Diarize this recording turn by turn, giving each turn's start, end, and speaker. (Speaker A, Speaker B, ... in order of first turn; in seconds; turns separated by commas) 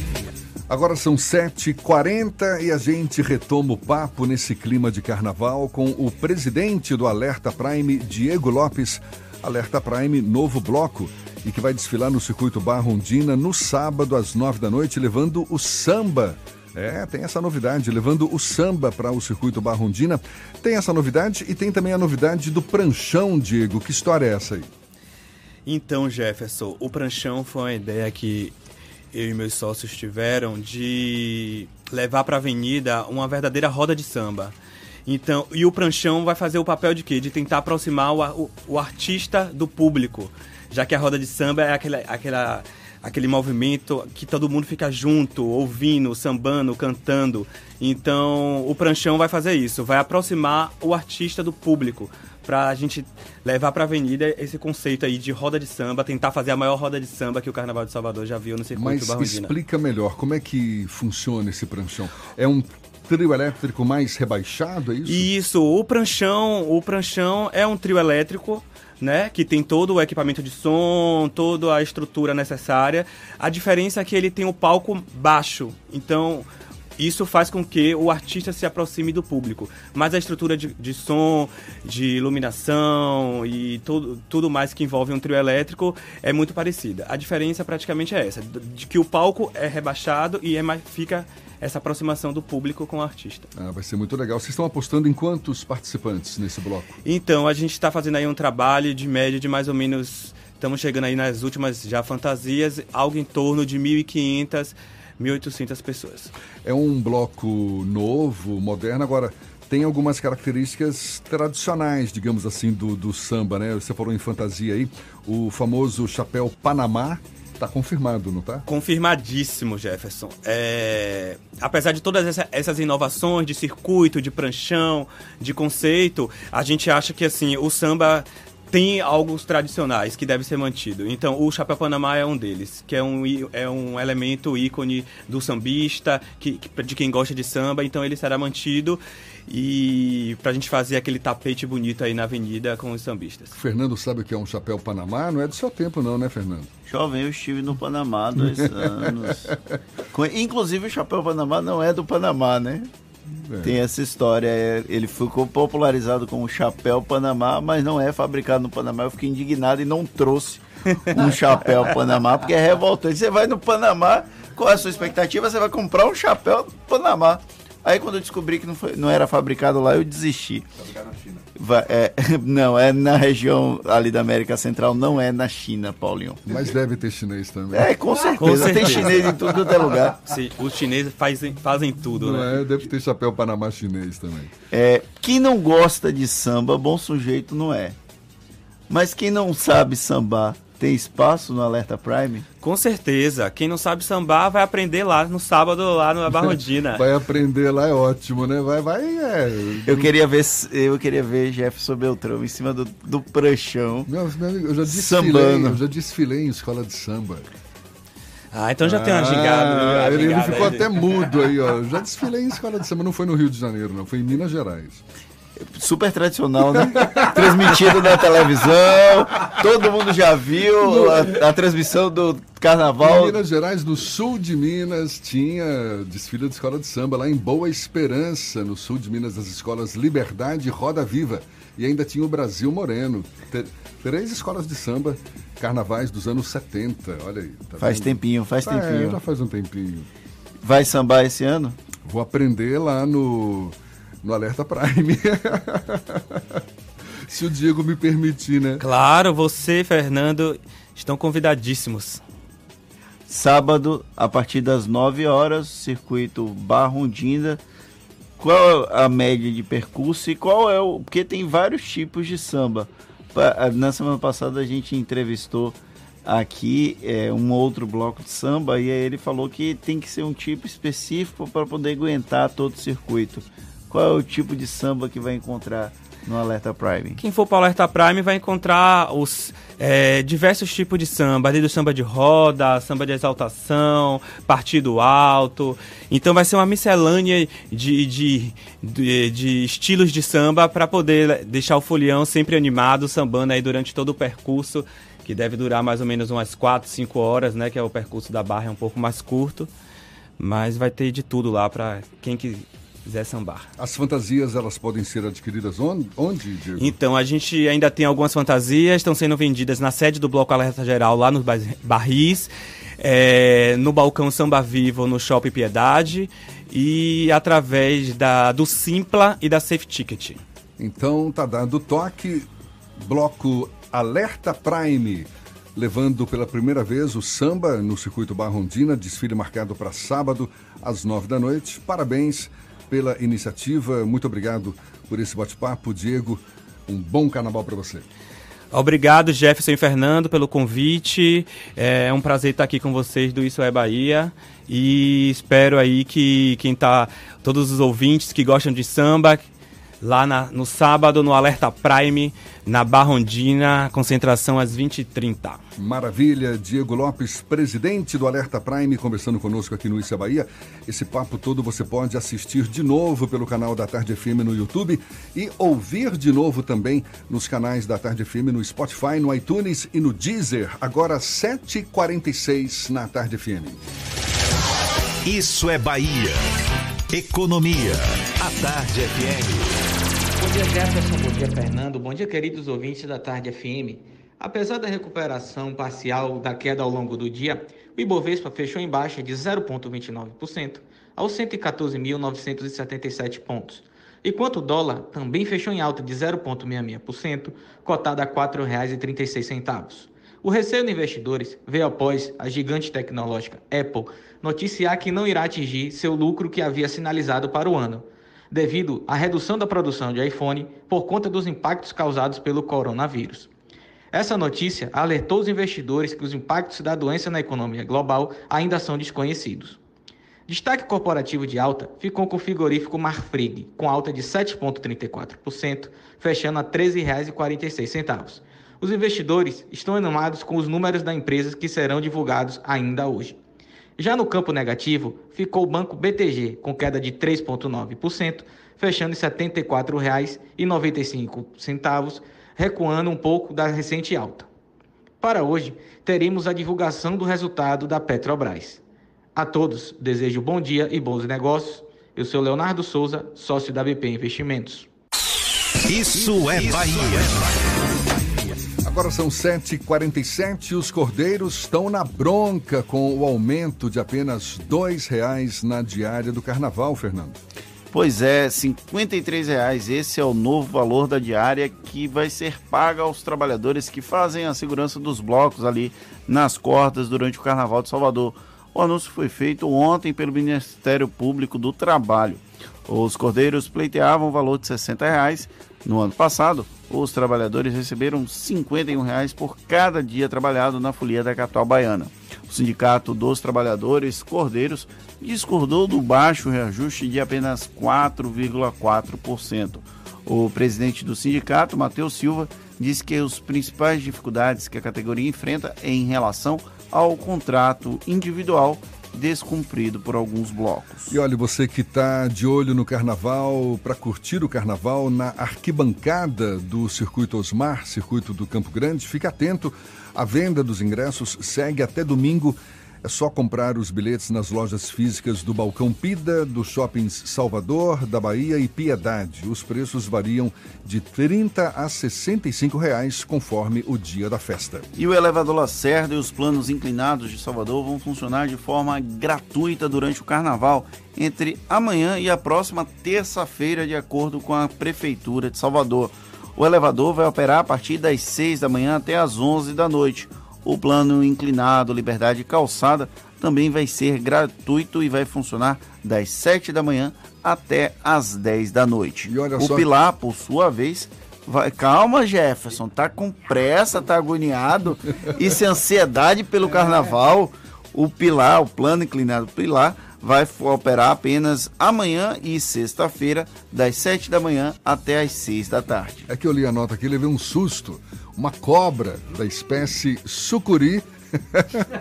Speaker A: 0.7-24.7, Speaker B: 25.7-28.6, Speaker B: 29.1-34.5, Speaker B: 35.1-59.5, Speaker A: 58.8-65.3, Speaker B: 65.1-93.5, Speaker A: 93.5-96.9, Speaker B: 97.0-106.3, Speaker A: 106.6-118.7, Speaker B: 118.7-143.5, Speaker A: 143.5-146.7, Speaker C: 146.9-149.5, Speaker A: 148.4-149.6, Speaker C: 150.1-152.9, Speaker A: 153.4-153.8, Speaker C: 153.6-170.7, Speaker C: 171.6-176.4, Speaker A: 176.4-177.9, Speaker C: 177.7-180.2, Speaker B: 178.4-179.2, Speaker A: 178.4-179.3, Speaker B: 180.2-182.6, Speaker A: 182.2-184.5, Speaker C: 184.7-187.9, Speaker C: 188.9-192.4, Speaker B: 192.6-197.1, Speaker A: 196.3-200.1, Speaker C: 199.9-204.1, Speaker A: 204.1-207.4, Speaker C: 204.9-205.8, Speaker B: 208.5-211.1, Speaker A: 208.8-215.0, Speaker C: 215.6-223.4, Speaker A: 217.0-218.1, Speaker A: 220.8-221.3, Speaker A: 223.0-240.1, Speaker C: 237.8-239.2, Speaker C: 240.6-241.8, Speaker A: 242.1-246.6, Speaker A: 247.3-248.8, Speaker B: 248.8-252.2, Speaker C: 253.3-257.6, Speaker C: 258.4-277.2, Speaker B: 277.2-299.7, Speaker B: 300.4-303.7, Speaker A: 303.8-306.9, Speaker B: 306.8-320.4, Speaker A: 320.8-338.1, Speaker B: 338.7-349.5, Speaker B: 350.0-355.6, Speaker A: 355.8-373.8, Speaker D: 375.2-376.5, Speaker D: 377.1-379.9, Speaker E: 380.4-413.5, Speaker E: 414.1-419.8, Speaker E: 420.5-433.4, Speaker E: 434.0-444.5, Speaker E: 445.2-448.8, Speaker E: 449.4-454.9, Speaker D: 455.9-457.4, Speaker A: 458.8-467.4, Speaker C: 467.9-511.1, Speaker A: 511.1-534.9, Speaker C: 535.0-576.3, Speaker A: 559.3-559.9, Speaker A: 576.3-581.9